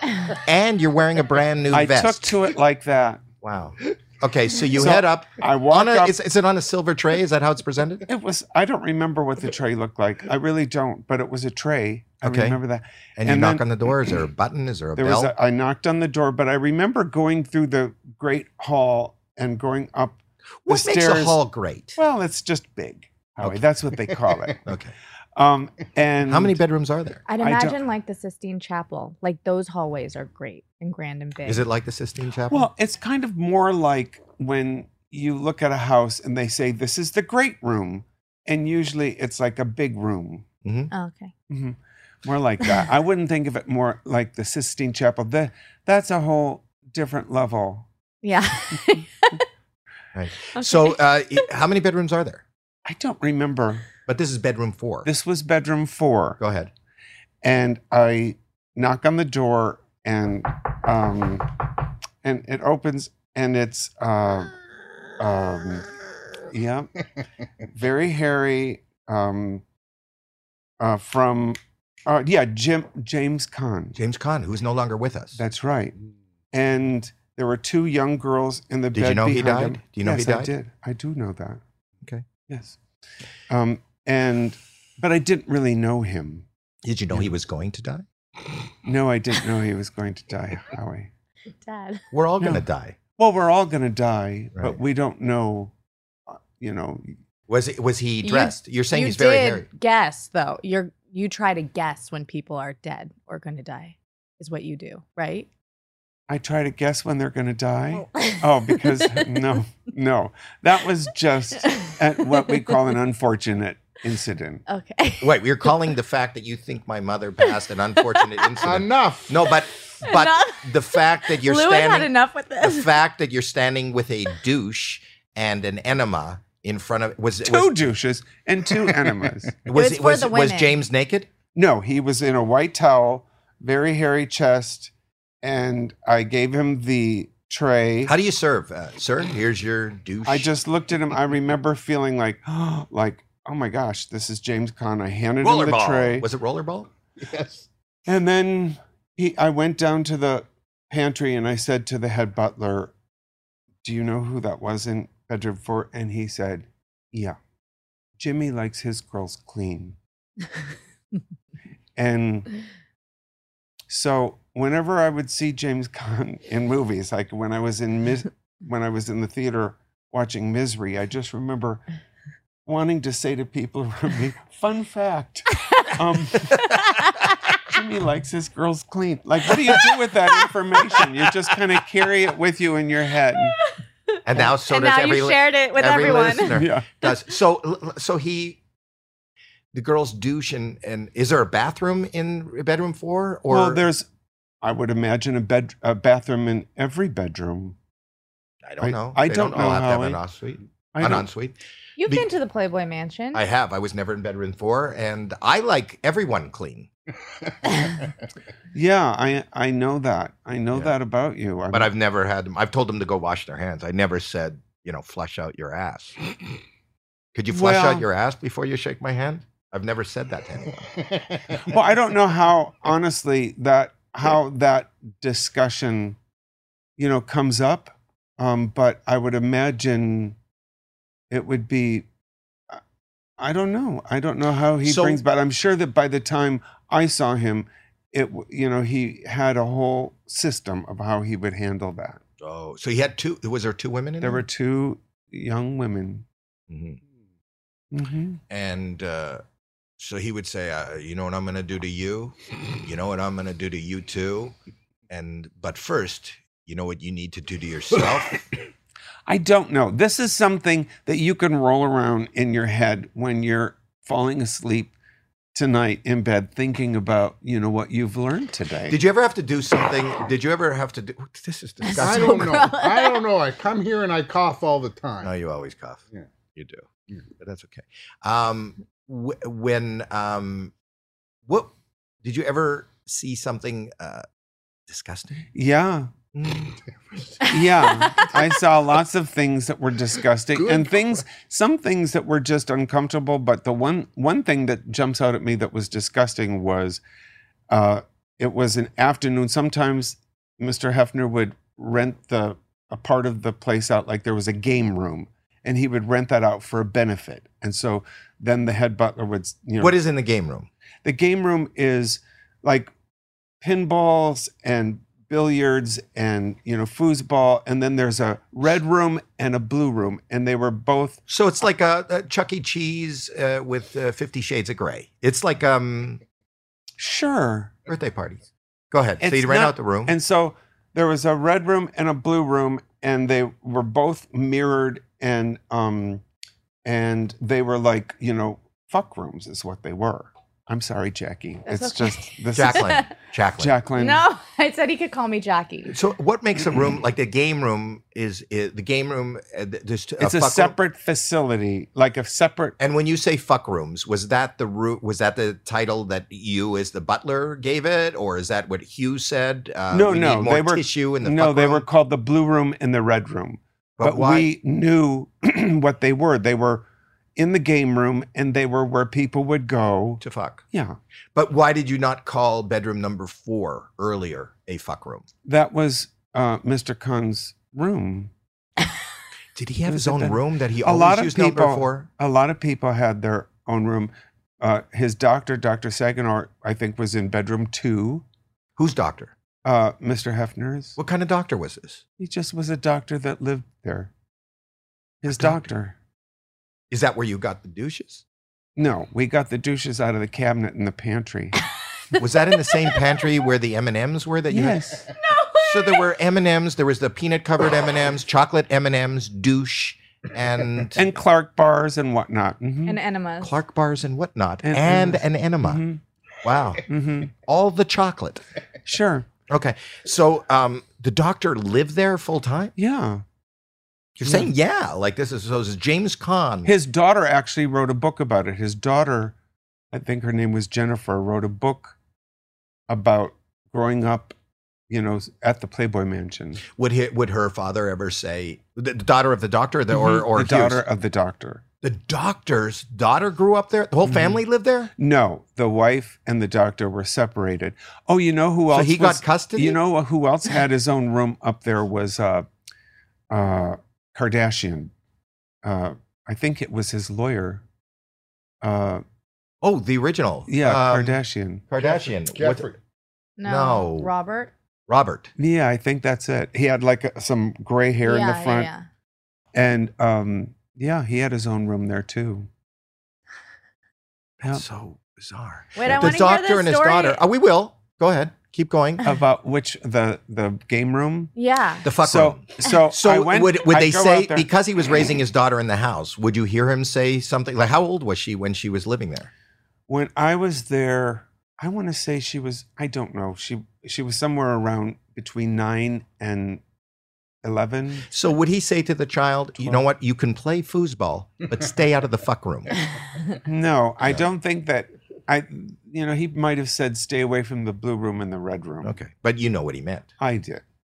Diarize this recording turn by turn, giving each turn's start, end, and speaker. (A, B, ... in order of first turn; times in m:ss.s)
0:00.3-0:02.4 A
0:01.7-0:03.2 B
0:03.4-0:08.1 A
0:04.8-0:06.2 B
0:08.1-0:13.9 B
0:12.2-0:12.6 A
0:13.2-0:15.3 A
0:15.0-0:21.4 B
0:20.6-0:22.0 A
0:22.0-0:24.7 B
0:24.6-0:24.9 A
0:25.3-0:26.6 B
0:26.2-0:27.2 A
0:27.3-0:31.6 C
0:27.4-0:27.8 B
0:31.4-0:32.7 A
0:32.5-0:40.4 B
0:40.6-0:40.9 A
0:40.9-0:41.3 C
0:41.5-0:47.9 B
0:48.2-0:49.4 C
0:50.1-0:52.4 A
0:50.6-0:50.9 C
0:52.8-0:53.8 B
0:54.1-0:55.1 A
0:55.0-0:56.4 B
0:56.4-0:56.7 A
0:57.4-1:01.7 B
1:02.2-1:04.6 B
1:05.2-1:05.9 B
1:06.5-1:06.9 B
1:07.6-1:09.6 B
1:10.8-1:14.0 B
1:13.9-1:15.4 A
1:15.4-1:15.9 B
1:16.5-1:21.6 B
1:18.9-1:20.5 A
1:22.5-1:22.8 B
1:23.5-1:26.4 B
1:26.8-1:28.0 A
1:28.8-1:31.1 B
1:31.6-1:32.0 C
1:32.1-1:33.0 A
1:33.2-1:35.7 B
1:36.3-1:37.1 B
1:37.5-1:39.7 A
1:38.2-1:45.5 C
1:46.3-1:54.6 B
1:48.0-1:49.2 C
1:54.7-1:55.4 C
1:55.2-2:07.8 A
1:58.6-1:59.4 D
2:00.0-2:02.9 C
2:07.4-2:09.6 B
2:09.6-2:11.3 A
2:09.7-2:10.8 C
2:11.5-2:14.9 B
2:15.4-2:18.1 B
2:18.0-2:20.5 A
2:20.2-2:26.3 B
2:25.4-2:26.9 A
2:27.2-2:27.6 D
2:28.1-2:32.9 B
2:33.8-2:37.4 B
2:38.2-2:40.0 B
2:42.0-2:42.5 B
2:43.9-2:51.8 B
2:52.6-2:56.7 B
2:57.6-3:03.6 B
3:03.6-3:06.6 C
3:04.2-3:08.6 A
3:06.5-3:06.9 B
3:09.7-3:13.8 A
3:13.5-3:14.1 B
3:14.6-3:17.8 B
3:18.6-3:22.2 A
3:18.8-3:20.2 B
3:20.9-3:21.2 B
3:22.0-3:23.4 C
3:23.3-3:26.9 A
3:28.7-3:31.9 B
3:31.7-3:36.2 A
3:37.3-3:41.0 A
3:37.5-3:38.0 B
3:41.6-3:46.2 B
3:47.0-3:50.4 B
3:51.3-3:52.0 B
3:53.4-4:02.2 B
3:54.8-3:55.2 A
4:02.4-4:04.4 A
4:04.2-4:06.2 B
4:06.7-4:07.0 A
4:07.9-4:08.4 B
4:08.5-4:09.4 A
4:10.0-4:14.5 A
4:15.1-4:18.5 A
4:19.3-4:24.9 B
4:25.5-4:29.0 B
4:28.9-4:32.7 A
4:31.8-4:33.2 C
4:32.0-4:35.3 D
4:35.2-4:36.0 A
4:36.5-4:36.8 A
4:37.4-4:40.7 A
4:41.4-4:44.2 A
4:44.9-4:45.4 A
4:45.5-4:46.1 B
4:46.3-4:47.4 A
4:47.4-4:57.0 B
4:57.7-5:09.9 B
5:09.8-5:10.7 A
5:11.0-5:12.9 B
5:13.6-5:21.2 B
5:21.3-5:26.2 A
5:27.0-5:27.7 B
5:27.9-5:30.1 A
5:29.2-5:36.2 B
5:36.8-5:43.0 B
5:41.7-5:43.0 C
5:42.5-5:43.7 A
5:43.6-5:44.2 B
5:44.0-5:45.9 C
5:45.9-5:50.7 A
5:50.2-5:52.8 B
5:52.8-6:01.8 A
5:59.9-6:06.8 B
6:04.0-6:04.5 A
6:07.4-6:10.2 B
6:10.2-6:10.6 A
6:10.7-6:11.0 B
6:11.3-6:15.3 A
6:15.4-6:18.3 B
6:19.5-6:22.1 A
6:19.9-6:28.2 B
6:28.8-6:29.3 A
6:29.6-6:31.0 B
6:31.0-6:32.0 A
6:32.2-6:34.1 B
6:35.2-6:36.0 B
6:35.3-6:35.6 A
6:36.9-6:38.2 A
6:38.8-6:41.6 B
6:42.1-6:45.1 A
6:44.5-6:45.1 B
6:45.2-6:46.0 C
6:45.6-6:51.1 A
6:50.9-6:53.0 B
6:52.9-6:53.5 C
6:53.4-6:55.8 A
6:54.6-6:56.0 B
6:56.4-6:58.4 A
6:56.9-6:57.3 B
6:58.8-6:59.3 B
6:59.5-7:02.7 A
7:02.8-7:03.2 B
7:04.2-7:06.7 A
7:04.2-7:04.5 B
7:06.6-7:09.3 B
7:09.9-7:12.0 B
7:12.9-7:14.3 B
7:14.9-7:16.6 B
7:16.7-7:20.8 A
7:19.9-7:21.6 B
7:21.8-7:24.9 A
7:24.0-7:24.4 B
7:25.0-7:32.5 B
7:28.7-7:29.8 A
7:33.3-7:34.9 B
7:35.6-7:37.6 B
7:38.6-7:39.0 B
7:39.6-7:42.7 A
7:40.5-7:41.6 B
7:41.8-7:42.8 D
7:43.4-7:44.5 C
7:43.4-7:44.1 A
7:44.9-7:45.3 A
7:45.4-7:48.7 B
7:48.0-7:48.8 C
7:49.5-7:52.5 B
7:54.4-7:59.0 A
7:55.8-7:57.2 C
7:59.0-8:01.3 B
8:01.4-8:01.9 C
8:01.8-8:09.3 A
8:02.0-8:04.5 B
8:09.9-8:16.6 B
8:17.4-8:18.1 B
8:18.1-8:22.8 A
8:23.4-8:29.0 B
8:28.8-8:30.1 A
8:30.2-8:30.6 B